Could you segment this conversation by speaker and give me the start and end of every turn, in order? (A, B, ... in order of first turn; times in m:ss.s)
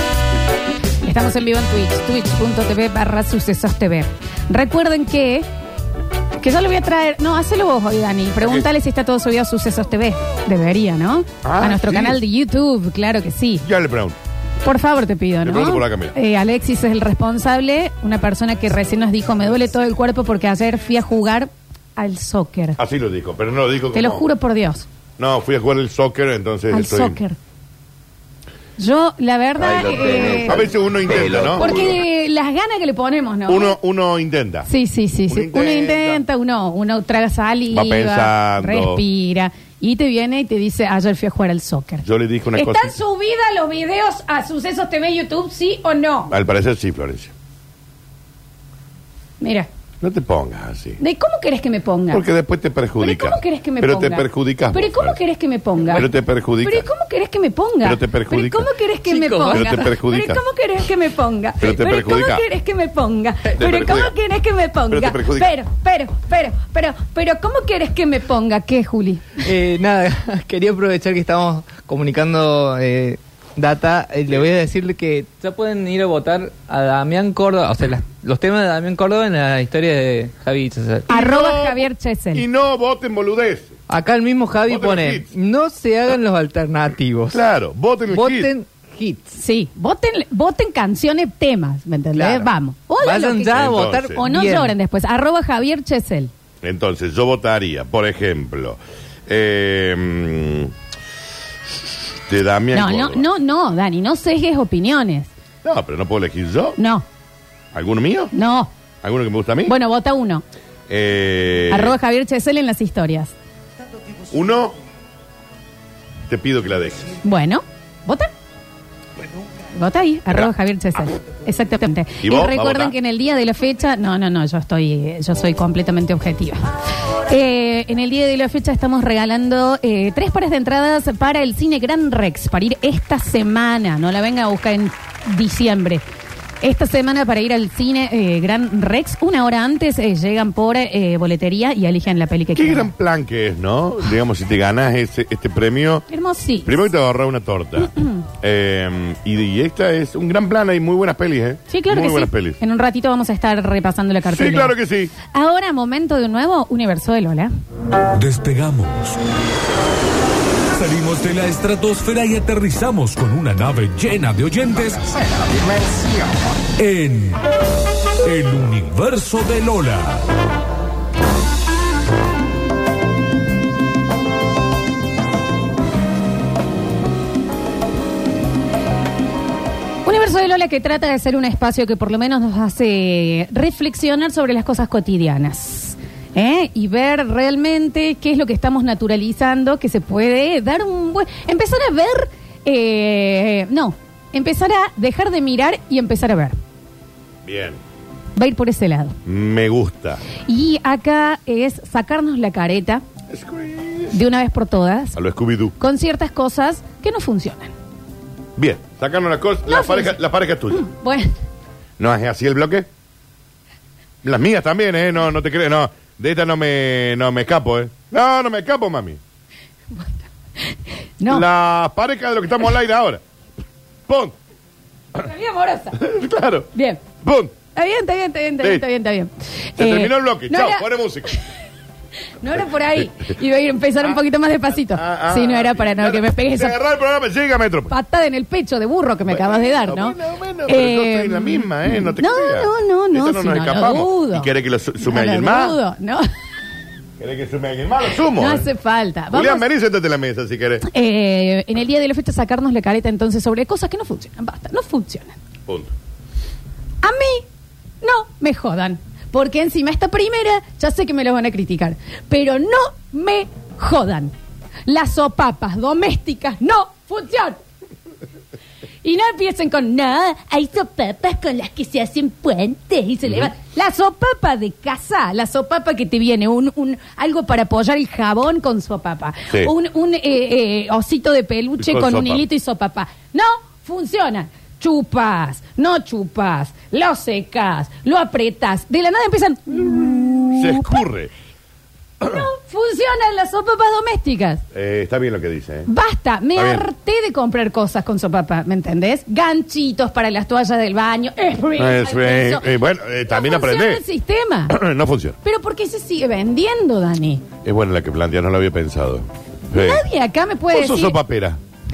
0:01.0-0:05.5 A
0:06.4-0:13.6 A
0:08.4-0:08.7 B
0:11.4-0:12.2 B
0:13.6-0:14.2 B
0:14.6-0:22.8 A
0:15.4-0:16.2 B
0:22.8-0:24.3 B
0:23.9-0:24.9 A
0:25.2-0:27.2 B
0:26.7-0:27.4 A
0:28.8-0:30.7 A
0:30.4-0:32.0 B
0:31.4-0:33.8 A
0:33.5-0:34.7 B
0:34.6-0:46.3 A
0:35.3-0:36.2 B
0:37.7-0:39.0 B
0:42.0-0:43.0 B
0:46.3-0:47.3 B
0:49.4-0:49.7 A
0:50.0-0:51.0 B
0:51.0-0:52.2 A
0:52.1-0:55.2 B
0:53.0-0:56.1 A
0:55.9-0:56.9 B
0:56.6-1:09.4 A
0:57.8-0:58.7 B
0:59.1-0:59.9 C
0:59.5-1:00.4 B
1:01.6-1:02.4 B
1:03.6-1:04.1 B
1:04.9-1:05.5 B
1:09.4-1:21.1 C
1:21.1-1:22.5 A
1:21.1-1:23.8 B
1:23.9-1:27.4 C
1:24.7-1:25.3 B
1:27.3-1:28.5 B
1:28.1-1:29.3 C
1:29.3-1:36.3 A
1:32.2-1:32.5 C
1:33.0-1:34.7 C
1:33.5-1:34.2 B
1:36.6-1:40.7 B
1:42.3-1:43.3 B
1:42.7-1:45.3 A
1:45.6-1:46.8 B
1:46.8-1:47.0 A
1:47.7-1:48.3 B
1:48.3-1:48.7 A
1:49.0-1:49.8 B
1:49.7-1:50.4 A
1:50.9-1:52.0 B
1:51.7-1:53.3 A
1:54.3-1:54.8 B
1:56.3-1:57.1 B
1:57.2-1:58.3 A
1:59.7-2:06.6 A
2:02.2-2:03.0 B
2:07.3-2:16.0 A
2:16.6-2:22.9 A
2:22.6-2:26.1 B
2:26.1-2:26.9 A
2:26.6-2:32.6 B
2:27.8-2:28.2 A
2:31.7-2:37.5 A
2:34.3-2:35.1 B
2:38.1-2:39.2 D
2:40.7-2:45.2 D
2:46.8-2:47.5 D
2:48.2-2:50.3 D
3:00.0-3:16.6 A
3:17.4-3:17.8 B
3:18.4-3:19.2 A
3:19.3-3:20.2 B
3:20.5-3:23.0 A
3:23.3-3:24.2 B
3:24.1-3:25.2 A
3:25.2-3:25.8 B
3:25.8-3:27.7 A
3:28.6-3:30.8 B
3:29.7-3:30.2 A
3:30.7-3:31.3 A
3:32.0-3:32.9 B
3:34.2-3:39.2 B
3:39.9-3:41.4 A
3:41.3-3:43.2 B
3:44.1-3:44.4 B
3:45.2-3:46.1 A
3:46.0-3:46.7 B
3:46.7-3:47.0 A
3:47.2-3:47.6 B
3:47.7-3:50.9 A
3:49.8-3:51.3 B
3:52.4-3:56.8 A
3:54.9-3:57.9 B
3:57.9-4:06.3 A
3:59.3-4:05.8 B
4:07.2-4:08.7 B
4:08.3-4:09.7 A
4:09.3-4:10.9 B
4:10.8-4:15.4 A
4:15.7-4:15.9 B
4:17.0-4:17.5 A
4:18.0-4:24.3 A
4:24.9-4:27.6 A
4:29.0-4:51.0 A
4:41.8-4:42.4 B
4:50.6-4:51.3 B
4:52.2-4:54.6 A
4:54.7-4:55.9 B
4:55.9-5:02.7 A
4:56.6-4:56.9 B
5:01.8-5:04.0 B
5:03.3-5:04.8 A
5:04.7-5:05.4 B
5:05.4-5:07.4 A
5:07.6-5:10.0 B
5:09.7-5:11.2 A
5:10.7-5:11.6 B